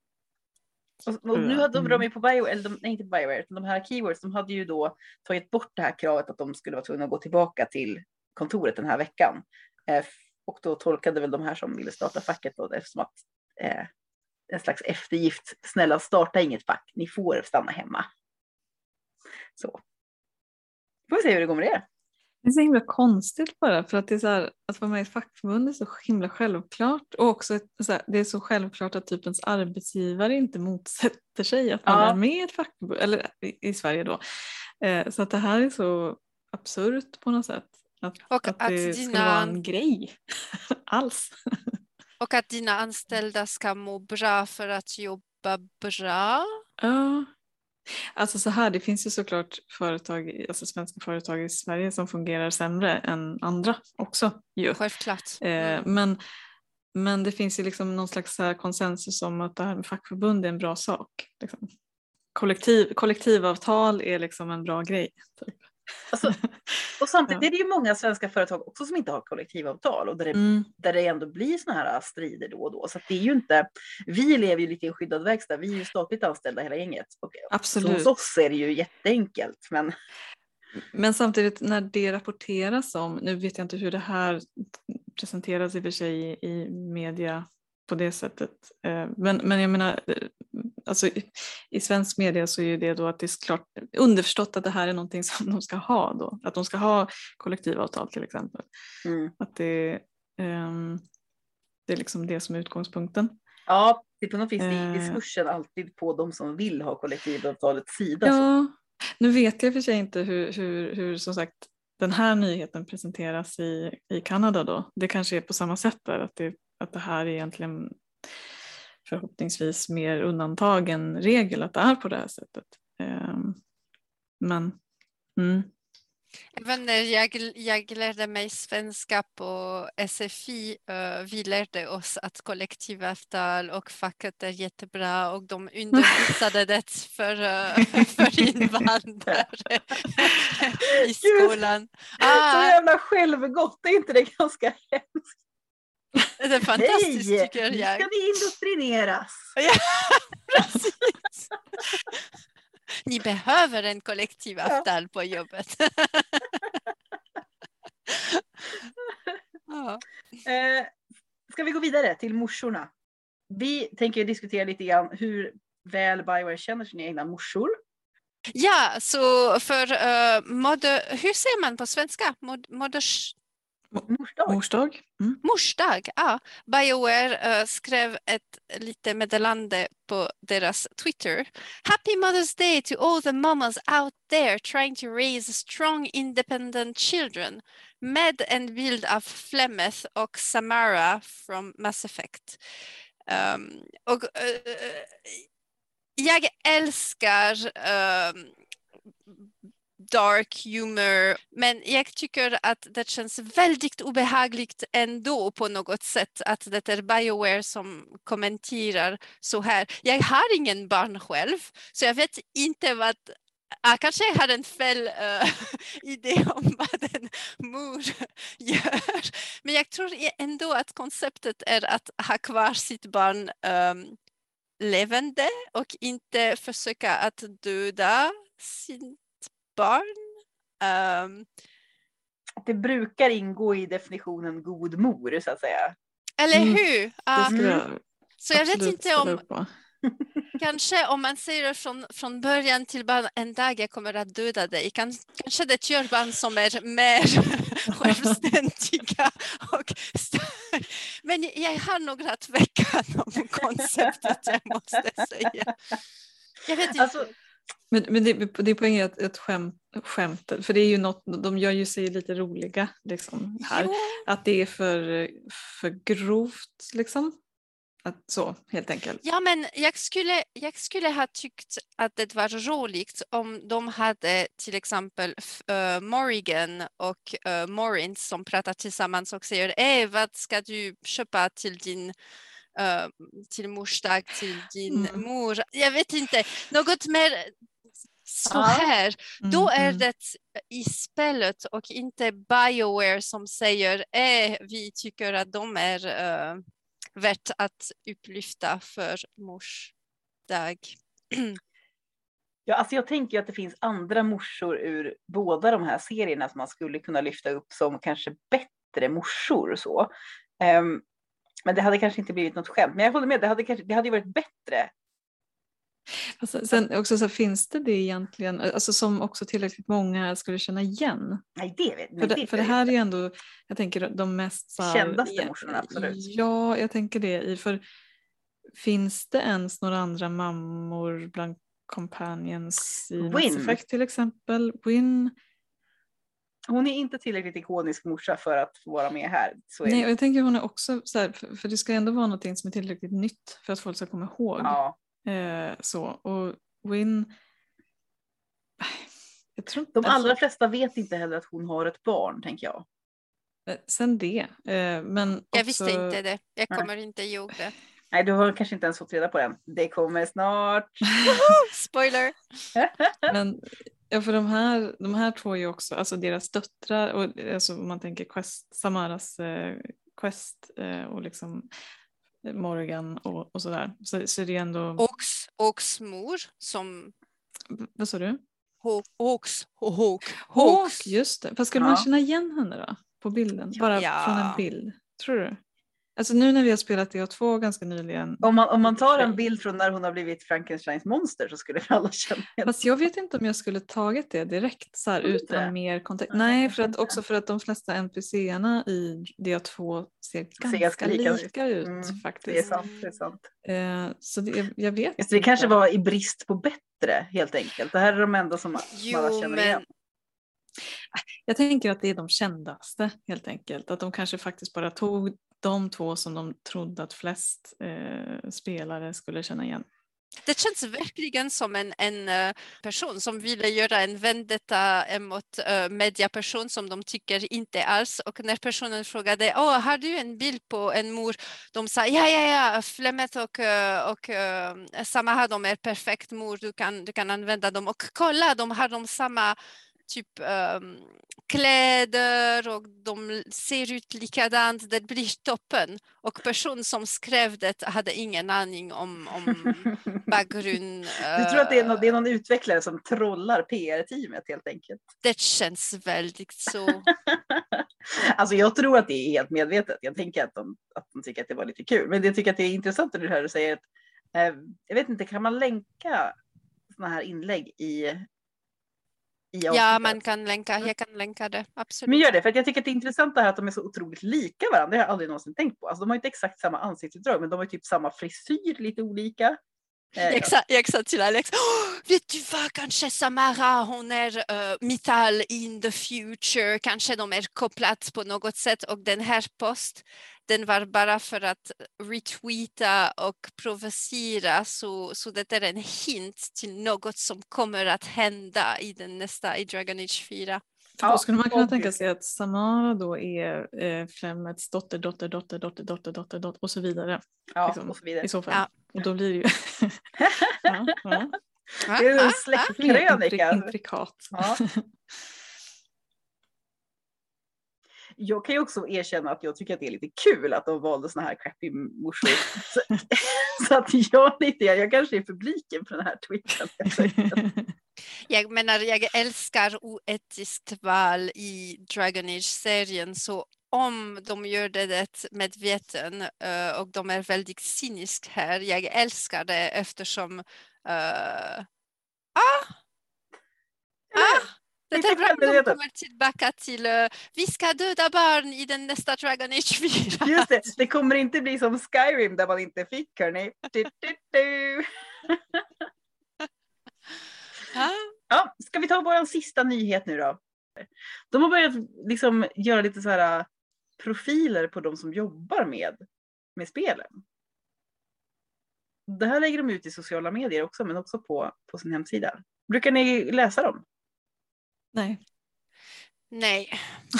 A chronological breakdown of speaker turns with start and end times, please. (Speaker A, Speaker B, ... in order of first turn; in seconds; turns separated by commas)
Speaker A: 1.1-13.9, Speaker B: 1.3-2.1, Speaker A: 14.5-18.1, Speaker A: 21.1-21.9, Speaker B: 22.4-34.2, Speaker A: 31.9-32.2, Speaker B: 34.8-41.8, Speaker C: 38.3-39.6, Speaker C: 42.2-46.5, Speaker B: 46.8-47.3, Speaker B: 48.2-54.8, Speaker C: 54.7-55.9, Speaker B: 55.4-56.2, Speaker B: 57.0-61.7, Speaker B: 62.4-67.5, Speaker A: 66.1-66.4, Speaker A: 67.0-79.9, Speaker B: 70.3-70.7, Speaker B: 77.5-78.1, Speaker B: 80.9-98.7, Speaker A: 99.0-99.3, Speaker B: 99.4-101.0, Speaker B: 101.9-103.4, Speaker A: 103.7-108.5, Speaker B: 104.6-105.2, Speaker B: 108.2-118.0, Speaker B: 119.0-123.6, Speaker B: 124.4-124.8, Speaker B: 125.4-125.7, Speaker C: 126.6-142.8, Speaker A: 140.9-141.6, Speaker A: 142.2-145.4, Speaker C: 146.4-148.1, Speaker A: 146.8-149.6, Speaker C: 149.6-152.2, Speaker C: 153.1-156.8, Speaker C: 158.1-158.4, Speaker A: 159.1-159.4, Speaker C: 159.7-160.0, Speaker A: 160.4-160.9, Speaker A: 161.5-162.9, Speaker A: 163.5-167.8, Speaker C: 168.6-173.4, Speaker B: 173.9-175.4, Speaker A: 174.1-174.6, Speaker C: 175.4-192.6, Speaker C: 193.3-195.4, Speaker C: 196.2-198.5, Speaker C: 200.0-224.2, Speaker C: 224.8-230.2, Speaker C: 230.8-231.5, Speaker A: 232.6-235.9, Speaker C: 236.4-237.6, Speaker B: 236.5-236.8, Speaker B: 237.3-238.0, Speaker A: 237.5-237.8, Speaker C: 238.4-239.4, Speaker B: 238.5-239.7, Speaker C: 240.6-255.7, Speaker C: 256.7-257.2, Speaker A: 257.0-257.3, Speaker B: 257.9-267.3, Speaker C: 263.6-264.2, Speaker B: 268.0-269.2, Speaker C: 269.2-282.1, Speaker C: 282.8-287.5, Speaker B: 284.9-285.3, Speaker C: 288.3-296.6, Speaker A: 288.5-288.9, Speaker B: 289.4-290.1, Speaker C: 297.2-299.9, Speaker C: 300.5-301.6, Speaker A: 302.7-311.0, Speaker A: 311.7-314.9, Speaker B: 316.4-321.4, Speaker A: 321.6-322.9, Speaker B: 322.2-327.8, Speaker A: 324.8-326.2, Speaker B: 328.8-335.3, Speaker A: 333.2-333.8, Speaker A: 336.7-340.1, Speaker B: 339.9-347.3, Speaker A: 344.6-345.0, Speaker B: 348.8-350.4, Speaker A: 350.0-352.9, Speaker B: 353.7-356.2, Speaker C: 355.5-357.8, Speaker A: 358.1-361.2, Speaker C: 361.2-362.3, Speaker A: 362.8-363.4, Speaker B: 363.3-363.6, Speaker B: 364.1-371.7, Speaker B: 372.4-375.0, Speaker C: 375.0-377.1, Speaker B: 377.7-378.4, Speaker C: 378.8-381.1, Speaker B: 380.5-385.6, Speaker A: 381.8-382.1, Speaker C: 383.9-384.6, Speaker B: 386.2-389.4, Speaker A: 388.4-392.7, Speaker B: 392.6-402.8, Speaker A: 395.2-395.7, Speaker A: 396.3-397.2, Speaker A: 400.6-403.5, Speaker C: 402.6-403.2, Speaker B: 403.6-405.7, Speaker A: 405.2-409.8, Speaker C: 408.9-409.8, Speaker B: 411.1-419.8, Speaker C: 420.5-452.2, Speaker A: 449.7-450.2, Speaker A: 451.3-455.0, Speaker C: 455.2-457.1, Speaker A: 457.1-466.4, Speaker A: 466.9-468.2, Speaker A: 469.5-470.2, Speaker C: 469.7-472.3, Speaker A: 472.1-479.6, Speaker A: 480.2-480.5, Speaker C: 480.2-500.6, Speaker B: 501.0-510.1, Speaker A: 501.0-502.0, Speaker A: 507.5-508.3, Speaker A: 510.2-511.2, Speaker B: 510.6-511.4, Speaker C: 511.9-512.7, Speaker A: 511.9-513.7, Speaker B: 512.7-514.9, Speaker A: 514.3-514.6, Speaker A: 518.2-527.4, Speaker B: 527.2-527.7, Speaker C: 528.3-541.6, Speaker C: 542.4-542.7, Speaker A: 544.1-545.8, Speaker C: 544.2-550.5, Speaker A: 550.2-555.6, Speaker C: 557.7-558.1, Speaker A: 558.3-563.5, Speaker A: 564.0-566.0, Speaker A: 566.6-567.2, Speaker A: 569.1-573.8, Speaker B: 574.9-575.2, Speaker C: 576.3-577.0